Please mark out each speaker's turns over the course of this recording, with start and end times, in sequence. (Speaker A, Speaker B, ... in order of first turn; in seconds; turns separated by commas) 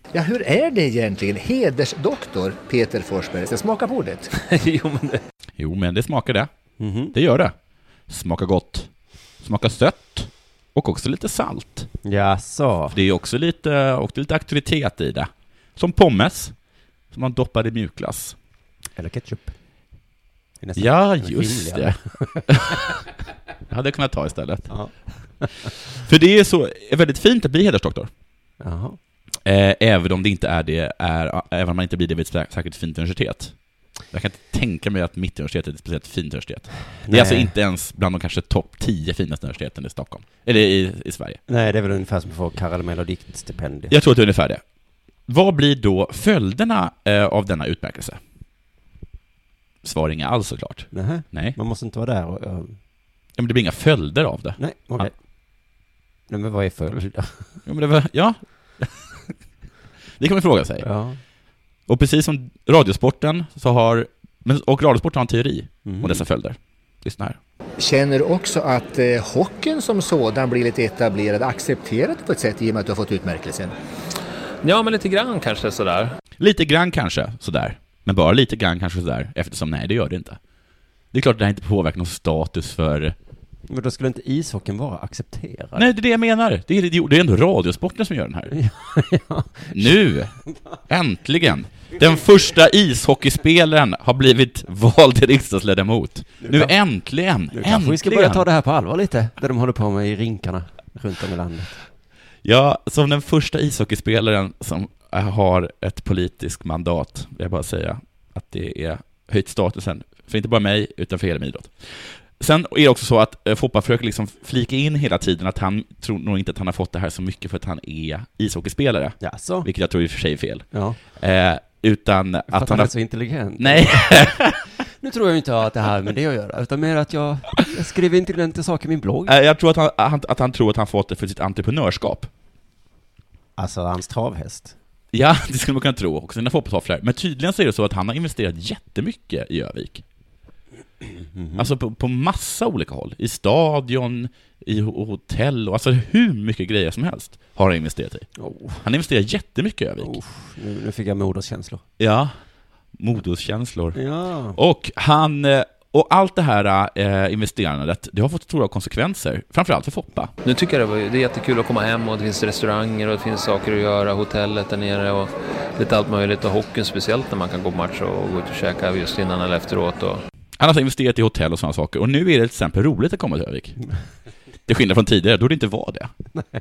Speaker A: 0.1-4.3, Speaker B: 4.3-5.2, Speaker C: 5.6-6.5, Speaker D: 6.8-7.2, Speaker C: 7.1-7.5, Speaker C: 8.1-8.9, Speaker C: 9.4-11.9, Speaker D: 12.0-13.0, Speaker C: 12.9-16.5, Speaker C: 17.1-18.4, Speaker D: 18.9-19.5, Speaker D: 20.6-22.8, Speaker C: 20.8-23.0, Speaker C: 23.7-24.7, Speaker D: 24.7-25.7, Speaker C: 25.9-28.1, Speaker D: 28.6-29.0, Speaker C: 29.4-33.5, Speaker C: 34.1-41.4, Speaker D: 37.0-37.5, Speaker D: 41.5-43.9, Speaker C: 43.9-44.6, Speaker C: 45.3-48.2, Speaker C: 49.8-51.6, Speaker D: 50.9-52.8, Speaker C: 53.4-55.1, Speaker D: 54.6-55.1, Speaker D: 56.3-57.6, Speaker C: 57.6-59.1, Speaker C: 60.2-60.9, Speaker D: 60.8-61.2, Speaker C: 61.9-67.4, Speaker D: 65.8-66.2, Speaker A: 67.8-73.7, Speaker B: 74.6-76.2, Speaker C: 76.4-80.4, Speaker C: 81.1-83.1, Speaker D: 83.7-85.9, Speaker C: 85.8-88.5, Speaker D: 88.5-90.0, Speaker C: 89.7-90.3, Speaker C: 90.9-98.5, Speaker D: 96.4-96.7, Speaker D: 97.5-101.8, Speaker C: 102.4-122.9, Speaker D: 119.2-119.7, Speaker D: 120.7-121.0, Speaker D: 122.5-129.3, Speaker C: 123.6-124.6, Speaker C: 129.3-132.3, Speaker D: 133.6-134.7, Speaker C: 135.1-140.0, Speaker D: 141.2-141.7, Speaker C: 141.6-148.3, Speaker D: 148.4-148.8, Speaker C: 148.8-150.2, Speaker D: 150.0-151.8, Speaker C: 152.0-152.3, Speaker C: 153.0-154.0, Speaker D: 153.9-154.6, Speaker C: 154.5-160.3, Speaker B: 160.4-170.2, Speaker C: 170.6-173.8, Speaker C: 174.7-176.1